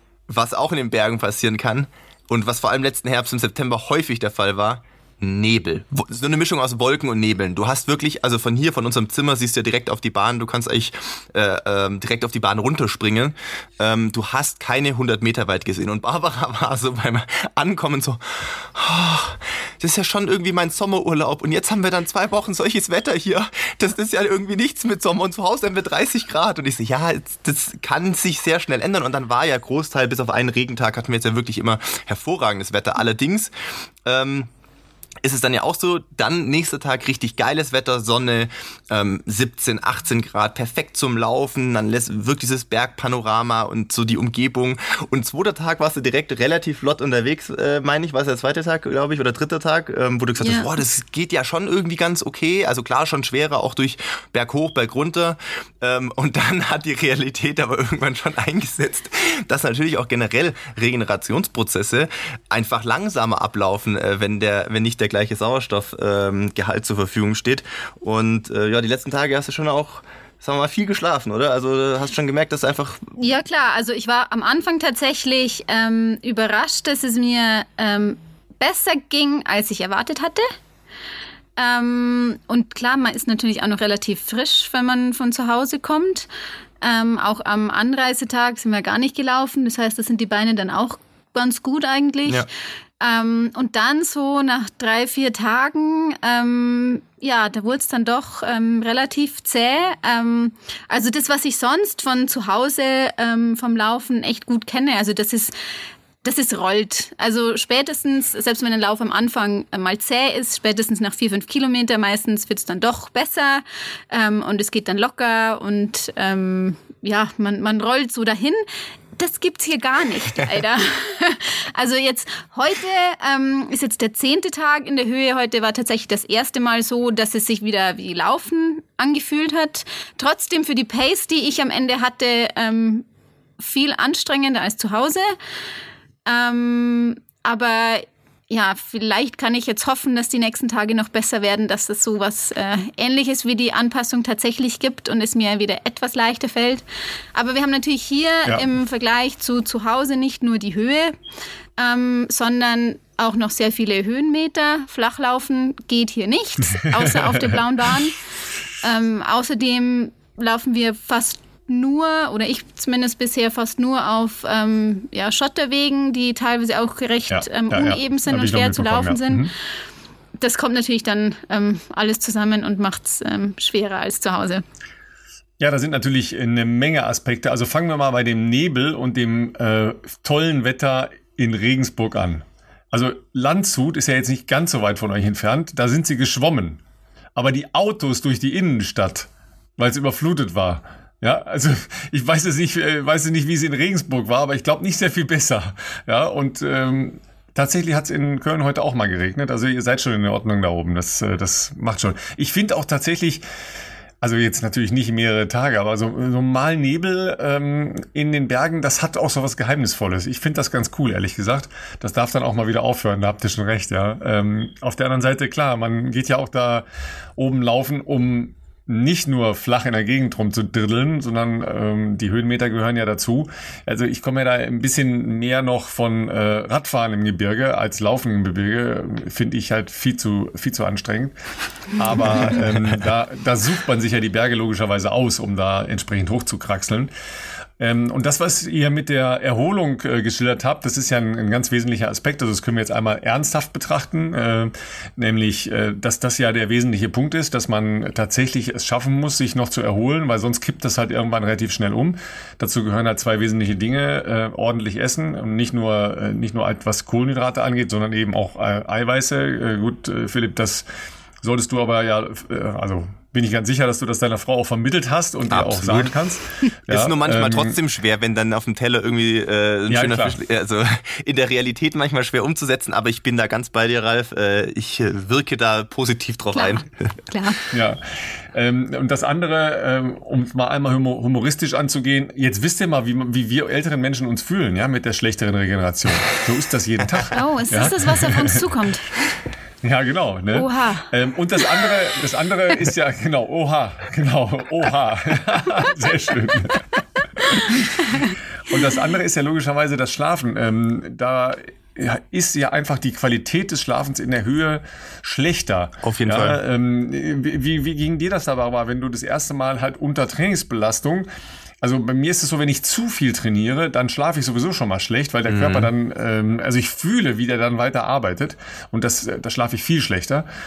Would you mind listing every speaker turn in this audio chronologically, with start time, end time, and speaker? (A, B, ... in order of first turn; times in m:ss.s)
0:00.3-0:33.5 A
0:34.0-0:34.5 A
0:35.2-1:13.0 A
0:50.4-0:50.7 B
1:13.2-1:20.5 B
1:21.6-1:26.3 B
1:26.8-1:32.4 B
1:33.0-1:45.5 B
1:46.2-1:58.6 B
1:59.2-2:13.0 B
2:13.6-2:15.3 B
2:16.2-2:31.1 B
2:31.8-2:38.2 B
2:36.7-2:37.6 C
2:38.8-2:49.5 B
2:47.3-2:49.5 C
2:50.4-2:54.6 B
2:55.6-3:06.8 C
3:07.3-3:23.4 C
3:24.2-3:36.8 C
3:37.4-3:51.4 C
3:51.9-3:57.1 C
3:57.8-4:20.8 C
4:21.4-4:27.8 C
4:25.5-4:26.1 A
4:26.9-4:37.1 A
4:29.9-4:30.4 C
4:36.5-4:36.8 B
4:37.3-4:37.6 B
4:37.7-4:48.6 C
4:47.3-4:49.1 B
4:49.8-4:56.9 C
4:50.5-4:51.1 B
4:57.4-5:11.3 C
5:06.0-5:06.6 A
5:11.8-5:20.4 C
5:15.5-5:15.9 A